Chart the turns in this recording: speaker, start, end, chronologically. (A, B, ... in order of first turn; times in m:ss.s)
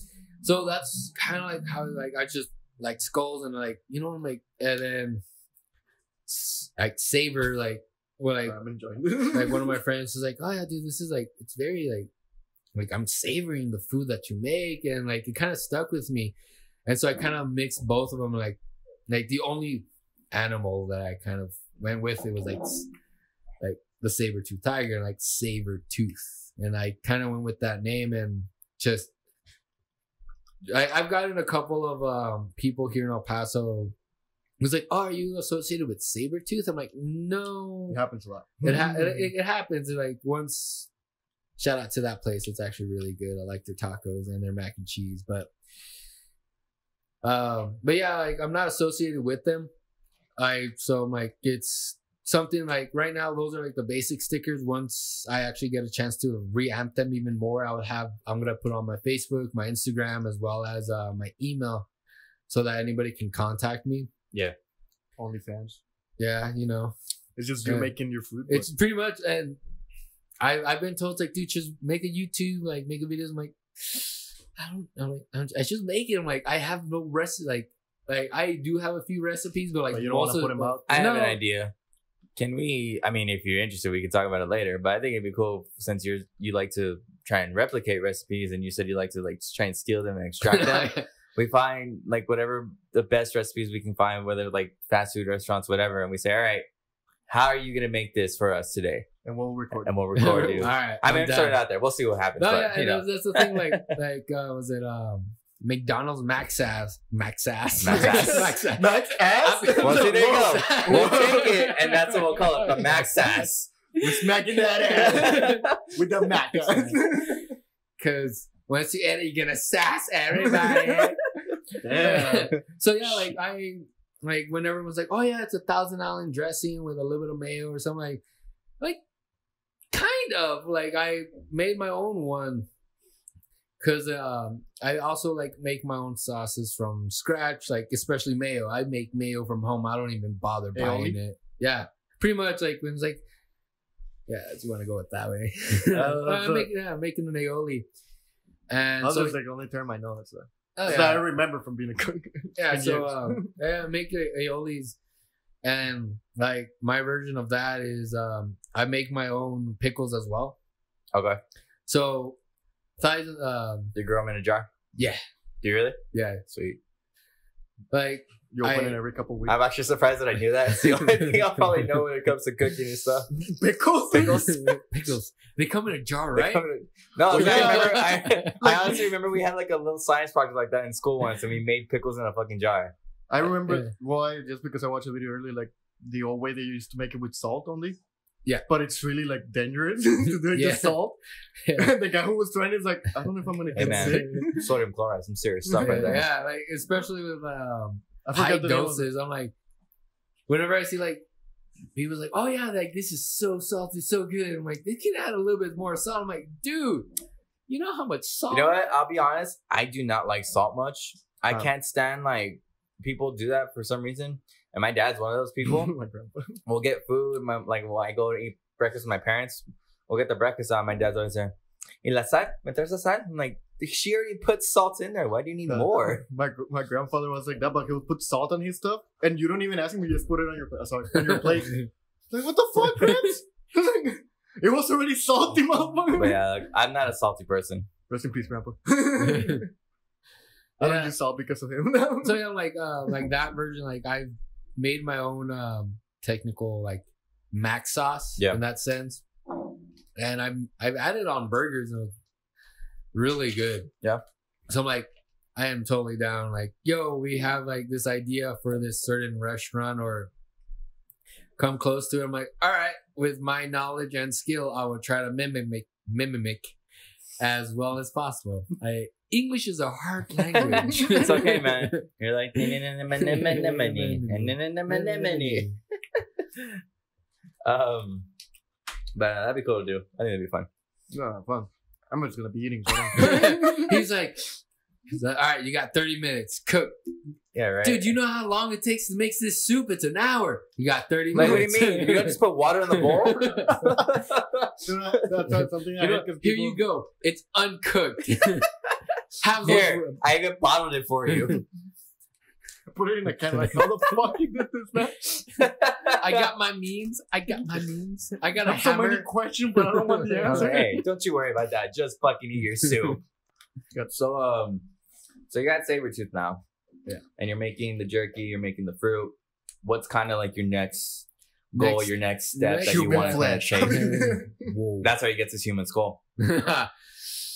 0:00.4-0:05.2 A
0:06.3-0:08.6 A
0:08.4-0:09.8 B
0:09.3-0:12.1 A
0:12.8-0:16.3 A
0:16.9-0:22.9 A
0:23.6-0:29.1 A
0:30.6-0:33.9 A
0:34.6-0:38.0 A
0:37.9-0:39.3 B
0:38.6-0:40.9 A
0:41.6-0:45.5 A
0:47.2-0:49.7 A
0:50.4-1:01.9 A
1:02.5-1:04.1 A
1:05.2-1:05.8 B
1:06.2-1:07.0 A
1:07.4-1:08.7 B
1:07.6-1:07.9 A
1:08.5-1:09.6 A
1:10.4-1:21.4 A
1:19.9-1:21.1 B
1:20.9-1:21.7 C
1:22.4-1:36.7 C
1:30.4-1:31.1 A
1:37.3-1:39.1 C
1:39.2-1:40.7 B
1:39.8-1:43.9 C
1:40.2-1:41.6 A
1:42.4-1:53.5 A
1:47.8-1:48.6 C
1:47.9-1:51.6 B
1:49.8-1:53.7 C
1:54.0-1:57.5 B
1:54.8-1:55.9 C
1:55.0-1:55.7 A
1:56.3-1:57.2 A
1:58.0-2:01.2 A
2:00.5-2:01.1 C
2:01.8-2:02.6 B
2:01.9-2:02.5 C
2:02.0-2:08.2 A
2:09.9-2:12.7 A
2:13.8-2:23.2 A
2:20.8-2:21.2 B
2:24.3-2:27.9 A
2:25.9-2:26.4 C
2:26.0-2:26.7 B
2:28.7-2:29.4 A
2:29.0-2:33.6 B
2:30.8-2:31.3 A
2:32.6-2:35.0 A
2:35.6-2:40.6 A
2:41.1-2:41.4 C
2:41.9-2:42.4 A
2:43.0-2:43.9 A
2:44.0-2:44.7 C
2:45.0-2:45.2 A
2:45.6-2:46.8 C
2:46.1-2:46.4 A
2:47.9-2:49.0 A
2:48.5-2:49.6 B
2:49.5-2:53.3 C
2:53.4-2:54.6 B
2:54.1-2:56.6 A
2:56.4-3:02.9 C
2:57.2-2:59.0 B
2:57.3-2:58.9 A
3:03.3-3:08.0 B
3:08.7-3:11.2 B
3:10.5-3:11.0 A
3:11.6-3:11.9 A
3:11.8-3:14.7 B
3:13.8-3:14.4 A
3:13.8-3:16.3 C
3:15.7-3:16.2 B
3:15.8-3:19.5 A
3:18.2-3:19.1 B
3:20.5-3:21.2 A
3:22.0-3:27.1 A
3:27.7-3:28.8 A
3:28.5-3:35.9 C
3:35.6-3:36.6 B
3:36.7-3:46.2 C
3:45.7-3:56.4 B
3:56.2-3:57.9 C
3:58.1-3:59.7 B
3:59.2-3:59.6 A
4:00.8-4:02.4 B
4:00.8-4:01.1 A
4:02.2-4:09.2 A
4:10.2-4:12.1 A
4:13.1-4:13.9 A
4:14.7-4:20.3 A
4:21.6-4:26.8 A
4:27.4-4:32.0 A
4:30.6-4:31.2 B
4:30.9-4:36.8 C
4:33.2-4:35.7 A
4:37.6-4:38.3 C
4:39.2-4:40.7 C
4:41.1-4:44.0 B
4:43.2-4:44.6 A
4:45.1-4:47.0 A
4:47.5-4:48.1 C
4:47.8-4:52.4 A
4:51.3-4:54.9 C
4:53.0-4:54.0 A
4:54.8-4:56.8 B
4:55.6-4:58.7 A
4:59.4-5:00.2 A
4:59.6-5:01.6 C
5:02.9-5:05.4 B
5:03.7-5:04.0 A
5:05.6-5:06.5 C
5:06.2-5:09.3 A
5:08.6-5:11.0 B
5:10.0-5:10.7 A
5:10.5-5:13.2 C
5:14.1-5:14.9 C
5:15.5-5:16.6 C
5:17.4-5:24.3 C
5:21.8-5:25.1 A
5:22.8-5:24.7 B
5:25.0-5:26.2 C
5:26.4-5:26.9 A